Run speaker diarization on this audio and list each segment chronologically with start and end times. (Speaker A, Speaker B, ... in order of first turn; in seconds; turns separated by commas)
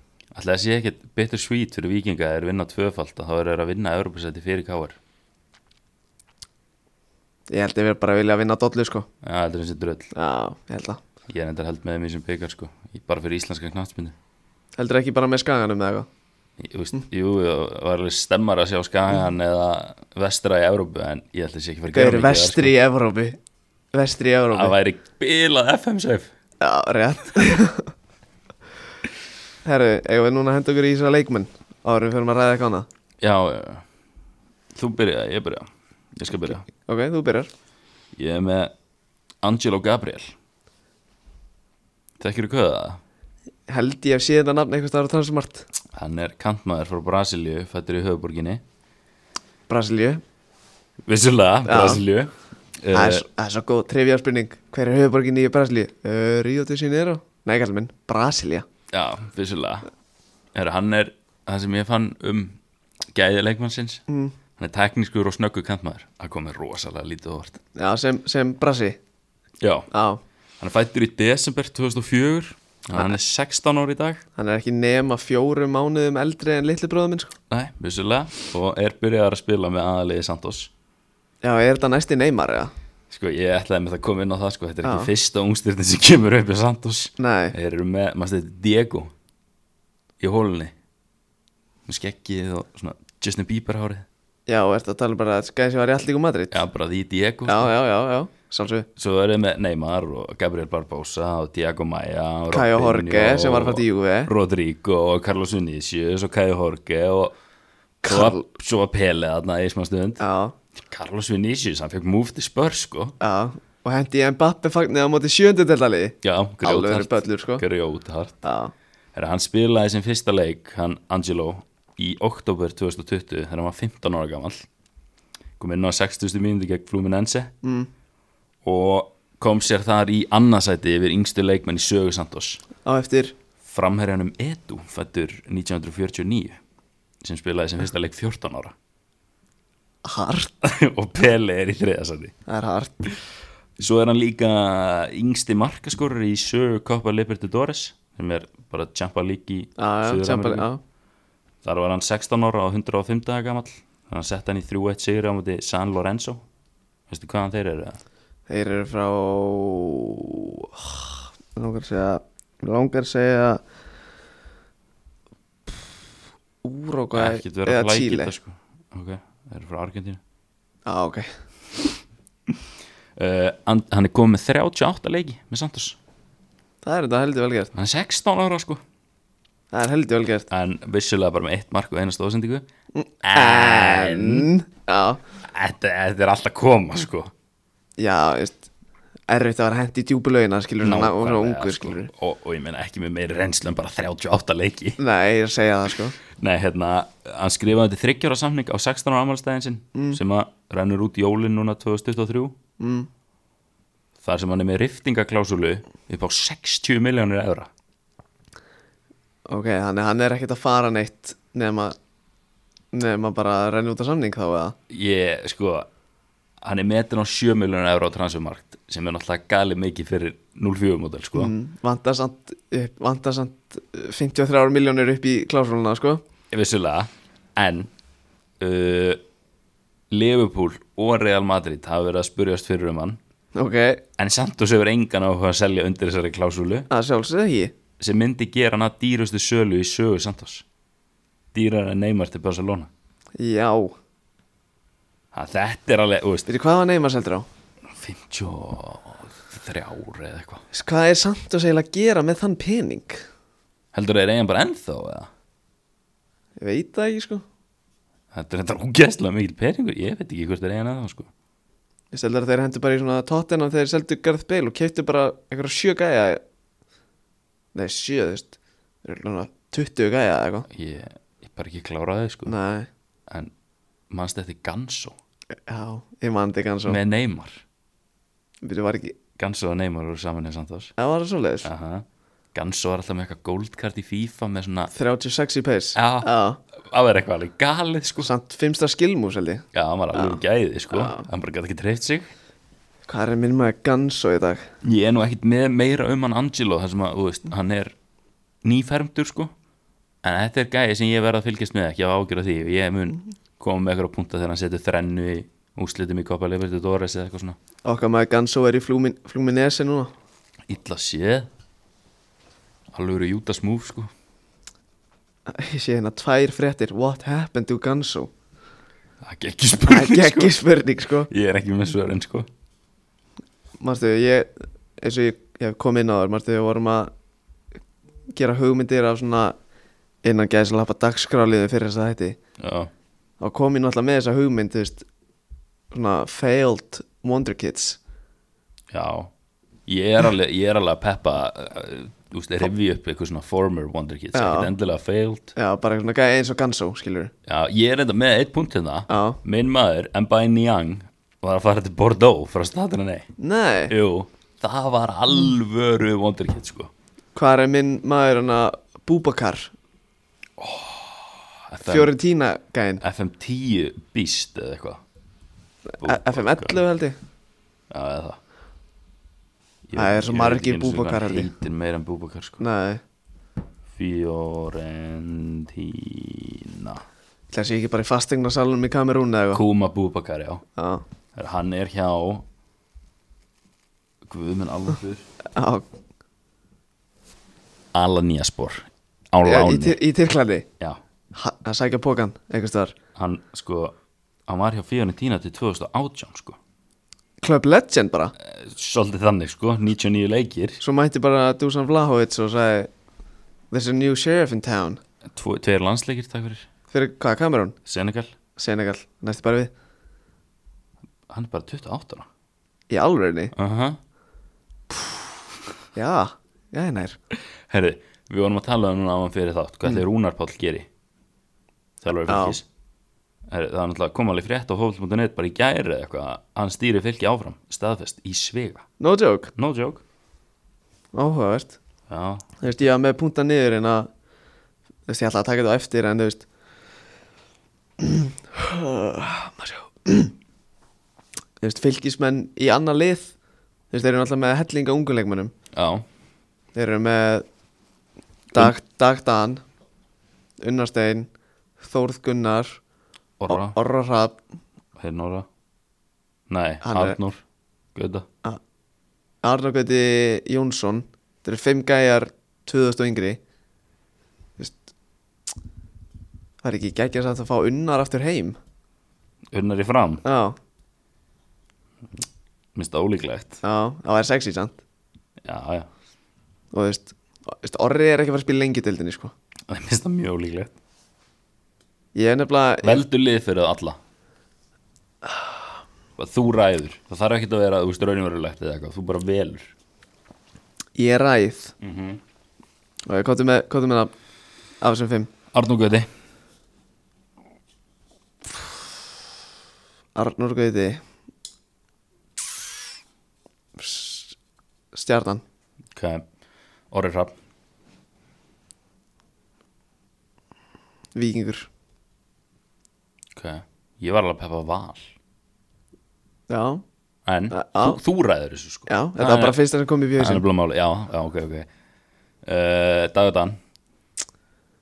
Speaker A: 0.3-5.0, Speaker B: 7.5-9.1, Speaker A: 9.2-10.1, Speaker B: 10.1-11.0, Speaker A: 11.3-14.1, Speaker B: 14.8-16.1, Speaker A: 16.6-22.7, Speaker B: 21.9-23.4, Speaker B: 23.9-24.8, Speaker A: 24.5-26.3, Speaker B: 26.6-27.9, Speaker B: 29.6-32.9, Speaker A: 33.2-33.8, Speaker A: 34.8-36.6, Speaker B: 36.8-37.5, Speaker A: 38.1-38.7, Speaker A: 39.4-40.3, Speaker A: 42.2-43.0, Speaker B: 43.7-45.6, Speaker A: 45.9-48.6, Speaker B: 49.7-50.2, Speaker A: 51.1-53.2, Speaker B: 51.6-52.0, Speaker B: 52.9-58.6, Speaker A: 58.9-59.9, Speaker A: 60.5-62.6, Speaker A: 63.1-64.0, Speaker B: 64.1-64.4, Speaker A: 64.6-67.6, Speaker B: 67.8-69.0, Speaker A: 69.6-69.9, Speaker B: 69.9-70.2, Speaker A: 70.6-74.2, Speaker B: 74.4-77.3, Speaker A: 77.5-80.7, Speaker B: 81.4-82.7, Speaker A: 83.1-89.1, Speaker B: 84.8-85.1, Speaker B: 87.2-87.5, Speaker A: 90.2-90.7, Speaker A: 91.9-94.1, Speaker B: 94.5-96.6, Speaker A: 96.5-97.7, Speaker B: 97.5-98.9, Speaker A: 99.0-107.3, Speaker B: 102.5-104.3, Speaker B: 108.0-108.4, Speaker A: 108.0-110.2, Speaker B: 110.2-110.6, Speaker A: 110.8-113.1, Speaker B: 113.2-117.6, Speaker A: 116.2-118.4, Speaker B: 118.4-118.7, Speaker A: 119.1-124.6, Speaker A: 125.6-127.5, Speaker B: 127.6-127.9, Speaker A: 128.6-132.6, Speaker B: 132.8-133.4, Speaker A: 133.6-136.6, Speaker A: 137.2-138.7, Speaker B: 140.0-140.5, Speaker A: 140.6-142.3, Speaker B: 142.5-143.1, Speaker A: 143.8-150.7, Speaker B: 149.8-150.8, Speaker A: 151.6-156.4, Speaker A: 157.1-158.0, Speaker B: 158.5-163.6, Speaker B: 166.6-168.3, Speaker A: 167.1-170.2, Speaker B: 170.9-171.3, Speaker A: 173.2-176.0, Speaker B: 176.8-177.7, Speaker A: 177.8-178.8, Speaker B: 179.7-180.5, Speaker A: 180.5-182.6, Speaker B: 182.9-185.2, Speaker A: 183.2-184.5, Speaker A: 185.5-187.3, Speaker B: 188.0-188.7, Speaker B: 189.3-192.1, Speaker A: 190.8-195.0, Speaker B: 195.0-196.1, Speaker A: 196.4-202.6, Speaker B: 199.9-200.2, Speaker B: 202.8-203.1, Speaker A: 204.2-207.7, Speaker B: 209.5-211.9, Speaker B: 212.9-214.8, Speaker A: 214.9-215.9, Speaker A: 216.6-221.5, Speaker B: 221.3-226.2, Speaker A: 226.5-227.9, Speaker A: 228.6-229.2, Speaker A: 230.1-233.2, Speaker B: 233.6-234.0, Speaker A: 234.2-236.9, Speaker B: 236.9-237.8, Speaker A: 238.0-240.6, Speaker A: 241.5-242.9, Speaker B: 243.4-243.9, Speaker A: 245.3-246.5, Speaker B: 246.5-247.5, Speaker A: 247.9-250.6, Speaker B: 250.7-253.2, Speaker A: 253.9-255.3, Speaker B: 256.6-257.4, Speaker A: 258.3-261.3, Speaker B: 262.1-266.4, Speaker B: 267.7-268.5, Speaker B: 269.0-270.6, Speaker A: 270.7-272.6, Speaker B: 272.5-272.9, Speaker A: 274.1-275.1, Speaker B: 275.6-277.0, Speaker A: 276.9-277.6, Speaker B: 278.6-279.2, Speaker A: 279.4-280.9, Speaker B: 281.0-281.7, Speaker A: 281.6-284.9, Speaker B: 284.9-286.6, Speaker A: 285.9-286.3, Speaker A: 286.9-288.3, Speaker B: 288.2-291.3, Speaker A: 289.7-292.3, Speaker B: 293.1-294.7, Speaker A: 294.8-297.9, Speaker A: 298.6-299.5, Speaker A: 300.2-307.6, Speaker B: 307.8-310.1, Speaker A: 310.7-311.5, Speaker A: 312.9-314.1, Speaker B: 315.5-318.3, Speaker A: 319.2-320.6, Speaker B: 319.9-321.3, Speaker A: 321.3-322.5, Speaker B: 323.8-327.1, Speaker B: 328.3-329.6, Speaker B: 330.2-332.4, Speaker A: 332.6-332.9, Speaker B: 333.4-335.1, Speaker B: 335.9-338.0, Speaker A: 338.9-339.3, Speaker A: 339.9-345.5, Speaker B: 344.3-344.7, Speaker B: 345.6-347.3, Speaker A: 347.4-353.3, Speaker B: 349.1-349.4, Speaker B: 353.4-353.9, Speaker A: 353.9-356.9, Speaker B: 357.4-359.7, Speaker A: 360.6-362.1, Speaker B: 361.8-363.0, Speaker A: 363.0-365.0, Speaker B: 365.9-367.2, Speaker A: 366.0-366.8, Speaker A: 367.9-368.4, Speaker A: 369.9-372.6, Speaker B: 369.9-371.5, Speaker B: 372.6-373.0, Speaker A: 373.9-377.0, Speaker B: 377.5-379.6, Speaker A: 379.5-380.6, Speaker B: 380.8-381.0, Speaker A: 381.4-382.4, Speaker A: 384.2-385.3, Speaker B: 385.5-385.9, Speaker A: 387.9-390.0, Speaker B: 389.4-390.7, Speaker B: 391.3-392.9, Speaker A: 393.1-393.9, Speaker A: 394.5-396.6, Speaker B: 397.4-398.3, Speaker A: 398.4-400.8, Speaker B: 400.8-402.9, Speaker B: 403.7-405.0, Speaker A: 405.3-406.7, Speaker B: 406.9-407.8, Speaker A: 407.9-408.3, Speaker B: 408.6-409.7, Speaker A: 411.3-412.3, Speaker B: 412.9-413.5, Speaker A: 413.6-414.0, Speaker B: 415.9-417.2, Speaker A: 417.7-420.9, Speaker A: 422.0-422.6, Speaker B: 422.3-422.6, Speaker A: 423.5-428.9, Speaker B: 429.0-429.5, Speaker A: 429.6-430.0, Speaker B: 431.1-431.8, Speaker A: 432.1-432.4, Speaker B: 432.6-434.1, Speaker B: 435.1-436.4, Speaker B: 438.0-440.3, Speaker B: 441.6-443.3, Speaker B: 443.9-445.5, Speaker A: 445.7-446.1, Speaker B: 446.8-447.4, Speaker B: 448.5-449.6, Speaker B: 450.6-452.8, Speaker A: 453.4-453.8, Speaker B: 453.5-454.4, Speaker A: 455.0-455.4, Speaker A: 456.5-457.4, Speaker B: 456.8-457.2, Speaker A: 457.9-458.3, Speaker B: 459.4-463.4, Speaker B: 466.6-468.6, Speaker A: 469.5-470.2, Speaker B: 470.2-470.6, Speaker A: 472.8-473.6, Speaker B: 473.6-474.8, Speaker A: 475.4-475.9, Speaker B: 476.7-479.3, Speaker A: 479.7-480.7, Speaker B: 482.1-483.0, Speaker A: 482.8-484.0, Speaker A: 486.2-489.7, Speaker B: 490.9-491.7, Speaker A: 491.8-492.2, Speaker B: 493.1-494.1, Speaker B: 494.8-495.3, Speaker A: 495.5-496.1, Speaker B: 500.1-501.0, Speaker B: 503.8-504.4, Speaker B: 504.9-505.4, Speaker A: 505.9-506.2, Speaker A: 506.9-507.3, Speaker B: 511.1-511.7, Speaker A: 513.4-515.1, Speaker B: 516.5-516.8, Speaker A: 517.3-519.6, Speaker B: 517.5-518.0, Speaker B: 518.9-520.4, Speaker A: 520.2-521.7, Speaker A: 522.4-523.6